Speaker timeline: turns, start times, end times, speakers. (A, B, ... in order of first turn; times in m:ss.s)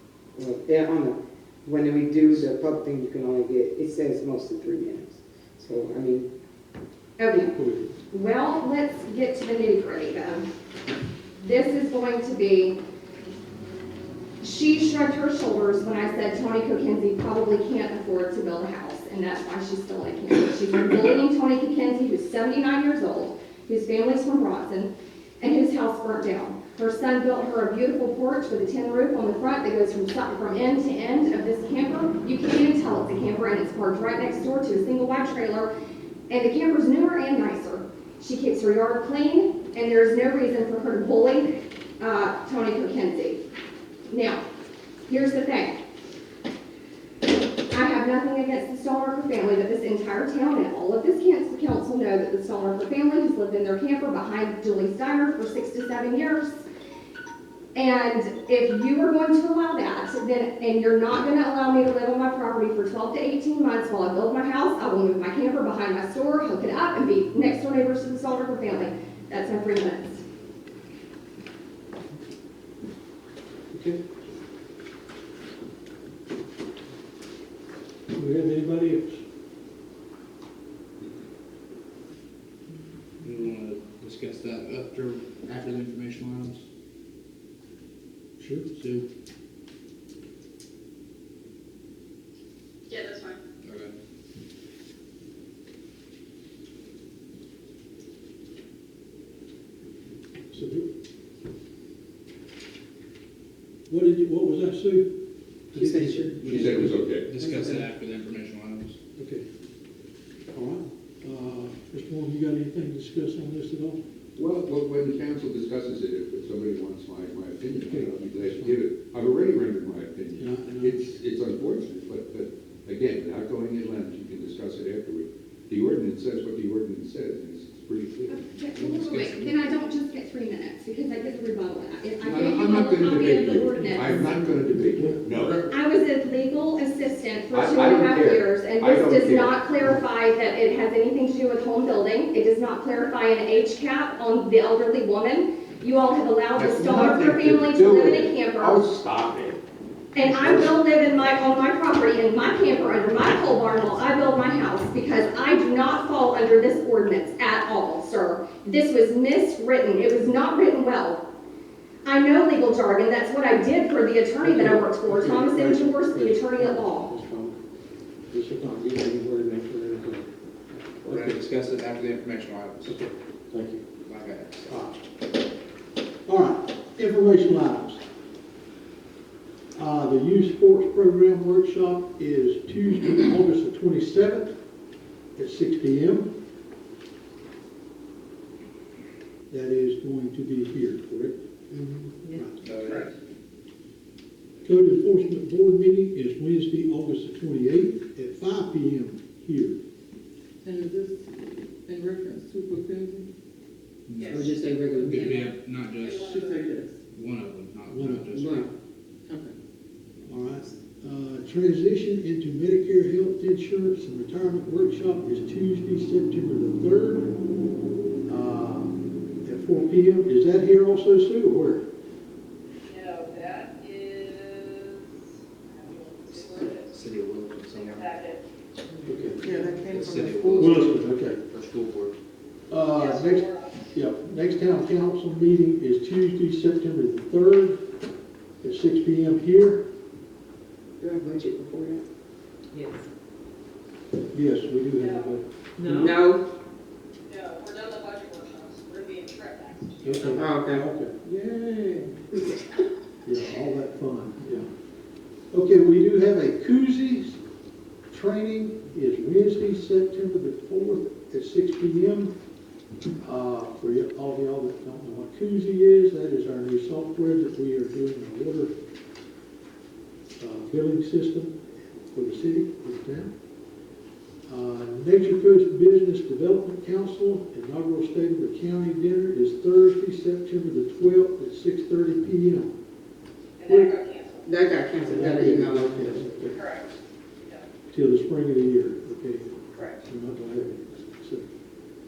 0:00.4-0:06.3 A
0:07.2-0:07.5 B
0:07.5-0:07.9 C
0:08.1-0:10.4 B
0:11.4-0:12.8 B
0:14.4-0:35.7 B
0:36.3-0:43.4 B
0:44.1-0:44.4 B
0:45.1-0:45.8 B
0:47.7-0:56.6 B
0:57.8-1:10.2 B
1:13.7-1:14.0 C
1:18.1-1:19.2 C
1:23.2-1:26.6 D
1:28.4-1:28.7 C
1:28.8-1:29.1 D
1:32.9-1:33.4 E
1:33.6-1:33.9 D
1:40.5-1:40.9 C
1:43.9-1:45.1 C
1:45.7-1:47.7 C
1:45.7-1:46.6 A
1:46.4-1:49.0 D
1:46.5-1:47.3 F
1:49.2-1:49.4 C
1:50.5-1:54.0 C
1:54.4-2:08.5 F
1:57.9-1:58.8 C
2:00.4-2:01.2 C
2:08.3-2:14.2 B
2:08.8-2:09.6 D
2:12.2-2:15.7 F
2:13.8-2:15.5 C
2:15.7-2:28.9 B
2:17.5-2:19.6 F
2:26.6-2:29.6 F
2:30.2-2:41.2 B
2:30.2-2:30.7 F
2:42.0-2:47.1 B
2:44.4-2:47.6 C
2:48.3-2:50.2 C
2:51.0-2:51.4 C
2:51.1-2:52.9 D
2:52.9-2:53.8 C
2:54.0-2:54.8 D
2:54.7-2:55.0 C
2:56.3-2:58.0 C
2:59.8-3:04.5 C
3:05.4-3:06.3 C
3:09.5-3:11.4 C
3:11.7-3:12.1 A
3:12.2-3:12.6 C
3:12.6-3:13.1 D
3:12.8-3:13.1 E
3:14.6-3:19.8 C
3:20.6-3:21.2 G
3:21.9-3:23.3 G
3:24.1-3:24.5 D
3:24.2-3:24.6 E
3:24.3-3:25.5 A
3:25.0-3:26.5 D
3:26.0-3:26.8 E
3:26.2-3:27.0 G
3:27.1-3:28.7 D
3:27.9-3:28.3 C
3:28.4-3:28.7 A
3:29.3-3:29.5 G
3:30.2-3:37.3 C
3:38.3-3:41.8 C
3:42.9-3:47.0 E
3:46.4-3:48.2 D
3:47.7-3:48.4 E
3:49.1-3:49.4 C
3:49.4-3:50.7 G
3:49.7-3:52.2 D
3:50.5-3:51.4 C
3:52.7-3:57.8 C
3:53.0-3:53.9 E
3:58.6-3:59.8 C
4:01.0-4:02.0 A
4:04.3-4:05.4 C
4:05.0-4:05.4 E
4:05.8-4:06.4 A
4:05.9-4:06.1 G
4:07.3-4:10.5 E
4:10.0-4:11.2 C
4:10.3-4:10.8 A
4:11.2-4:12.1 G
4:13.2-4:14.7 C
4:15.5-4:17.4 C
4:18.1-4:22.3 C
4:23.2-4:28.7 C
4:30.4-4:31.6 C
4:32.1-4:33.3 C
4:34.5-4:42.7 C
4:43.6-4:45.1 E
4:43.6-4:43.9 C
4:44.4-4:46.4 A
4:45.0-4:46.6 C
4:46.5-4:46.9 E
4:47.9-4:51.4 C
4:49.7-4:50.0 E